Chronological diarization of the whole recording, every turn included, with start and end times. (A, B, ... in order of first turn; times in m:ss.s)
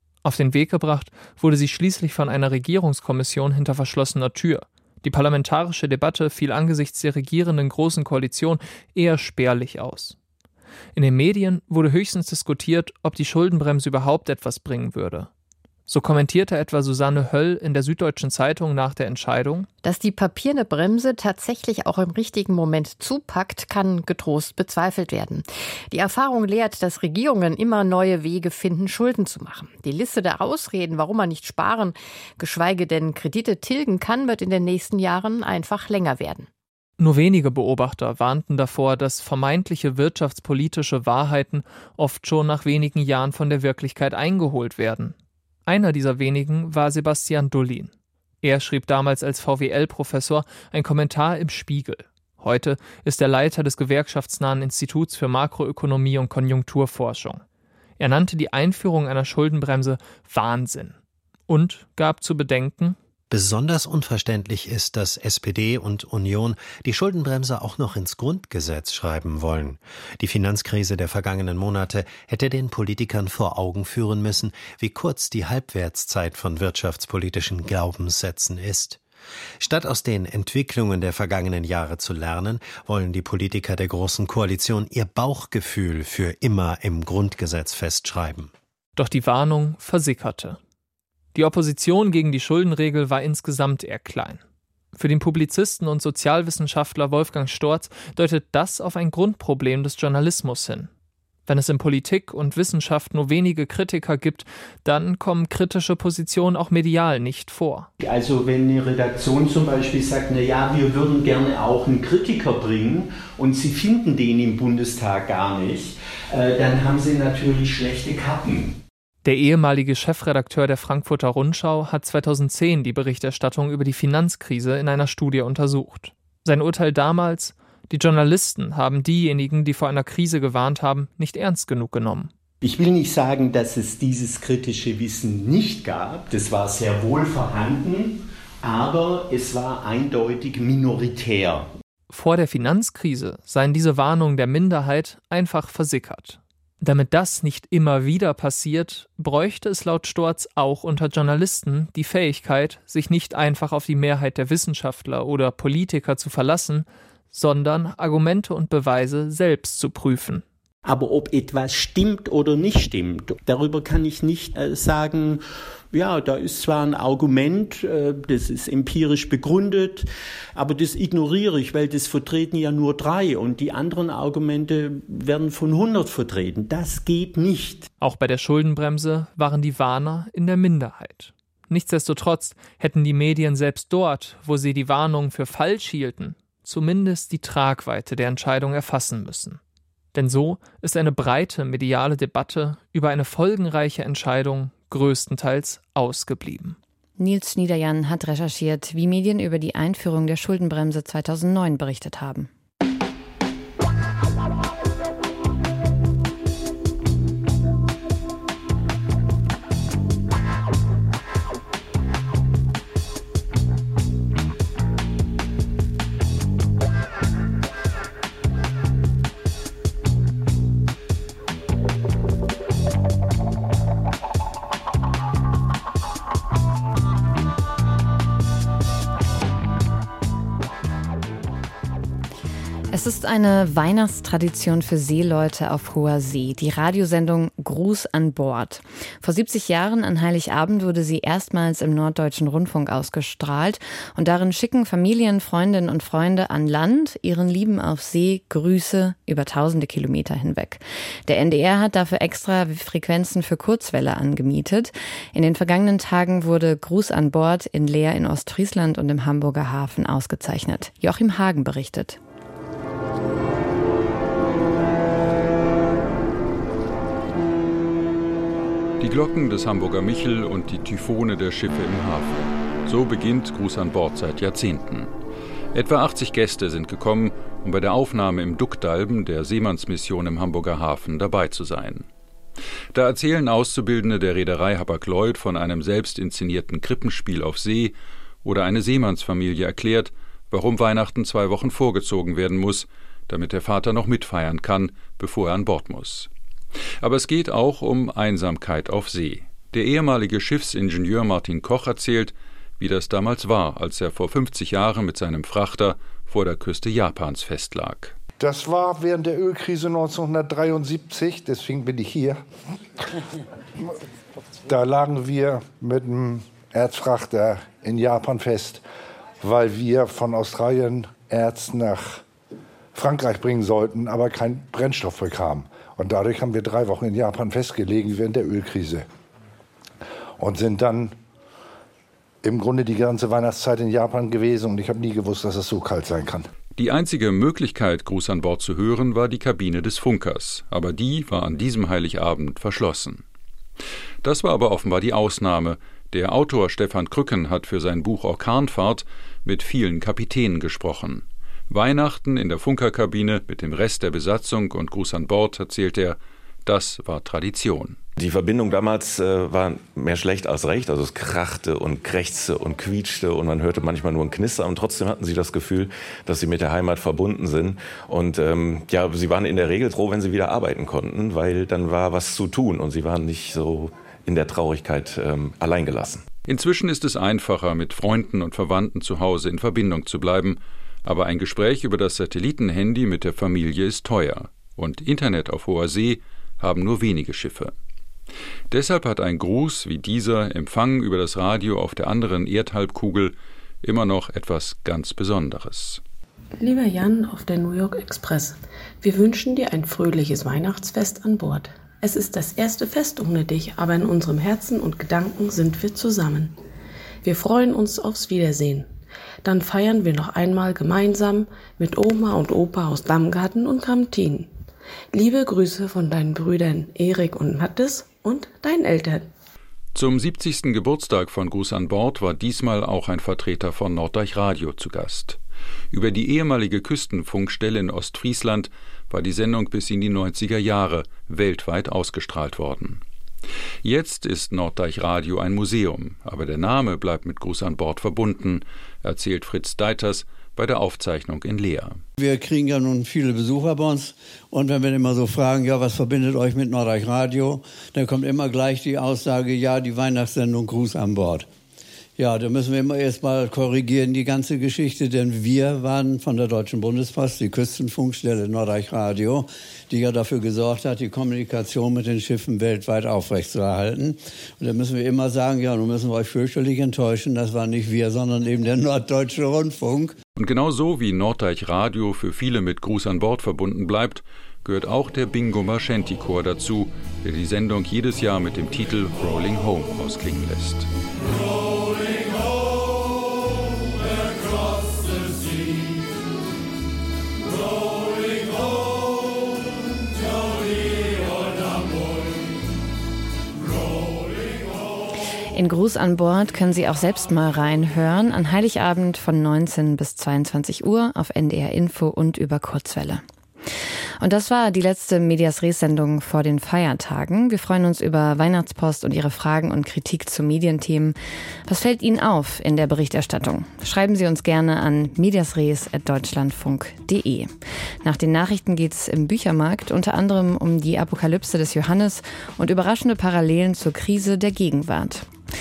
0:00.2-0:10.2 A
0:10.9-0:15.3 A
0:15.9-0:19.7 A
0:19.8-0:36.5 B
0:37.0-0:45.1 A
0:45.6-0:57.4 A
0:58.0-1:01.0 A
1:01.5-1:03.0 A
1:03.3-1:19.0 C
1:19.6-1:28.5 C
1:29.0-1:30.6 A
1:31.3-1:34.4 A
1:34.9-1:40.9 A
1:41.5-1:47.9 A
1:48.0-1:58.8 D
1:59.2-2:12.3 A
2:12.6-2:21.7 D
2:22.1-2:40.4 A
2:40.8-2:57.9 D
2:58.0-3:09.6 A
3:10.1-3:16.8 A
3:17.2-3:22.5 E
3:52.9-4:22.2 E
4:29.0-4:35.1 F
4:35.7-4:42.1 F
4:42.9-4:56.3 F
4:57.0-5:08.1 F
5:08.4-5:12.4 G
5:14.6-5:18.8 G
5:19.4-5:22.2 G
5:22.9-5:29.0 G
5:30.4-5:31.1 G
5:32.4-5:36.5 G
5:36.8-5:43.2 F
5:44.2-5:58.0 F
5:58.2-6:16.2 H
6:16.4-6:27.7 F
6:28.7-6:36.0 F
6:36.6-6:46.6 I
6:47.2-6:48.9 I
6:49.4-6:54.5 I
6:55.1-6:59.3 I
6:59.9-7:05.4 F
7:05.9-7:13.0 F
7:13.8-7:22.0 F
7:22.2-7:31.5 J
7:32.2-7:50.2 J
7:50.4-8:00.9 F
8:15.5-8:23.2 E
8:24.2-8:37.5 E
8:38.0-8:45.3 E